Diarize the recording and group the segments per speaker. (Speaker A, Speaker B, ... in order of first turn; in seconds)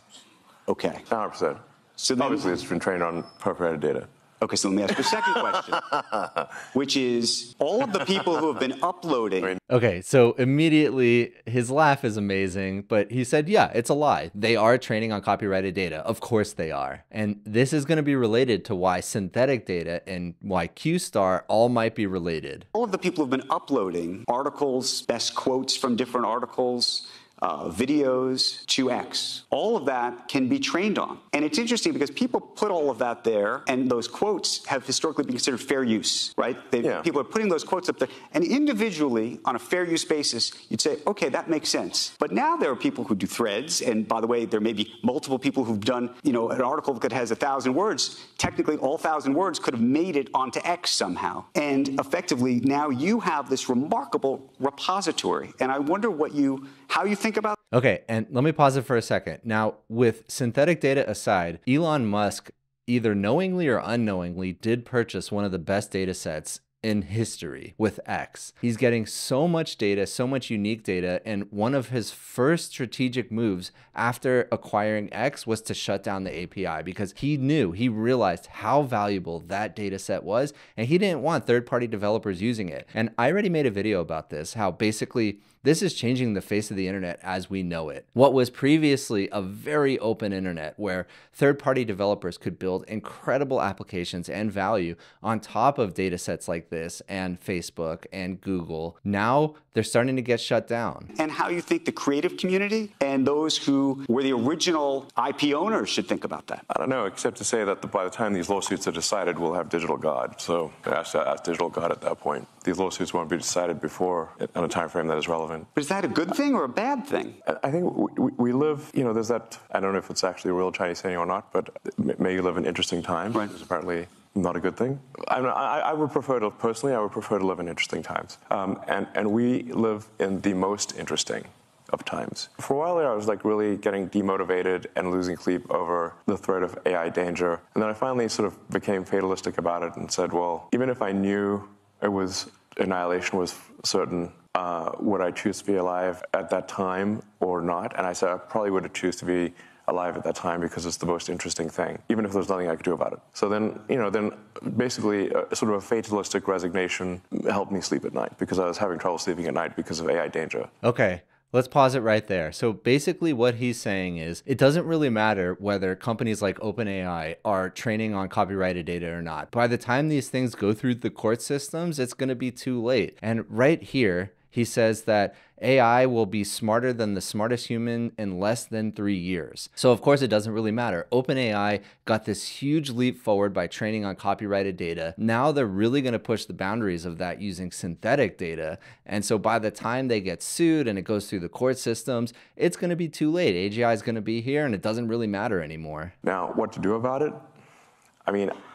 Speaker A: 0.7-1.1, 2.0-2.5, 4.4-6.0, 6.7-9.6, 22.7-57.6, 101.1-106.6, 115.8-117.4
Speaker B: 1.1-1.6, 2.2-4.1, 36.8-37.1, 106.7-115.7, 117.4-160.7, 196.2-197.4, 198.2-198.5
Speaker C: 9.7-22.7, 57.7-101.1, 160.8-196.1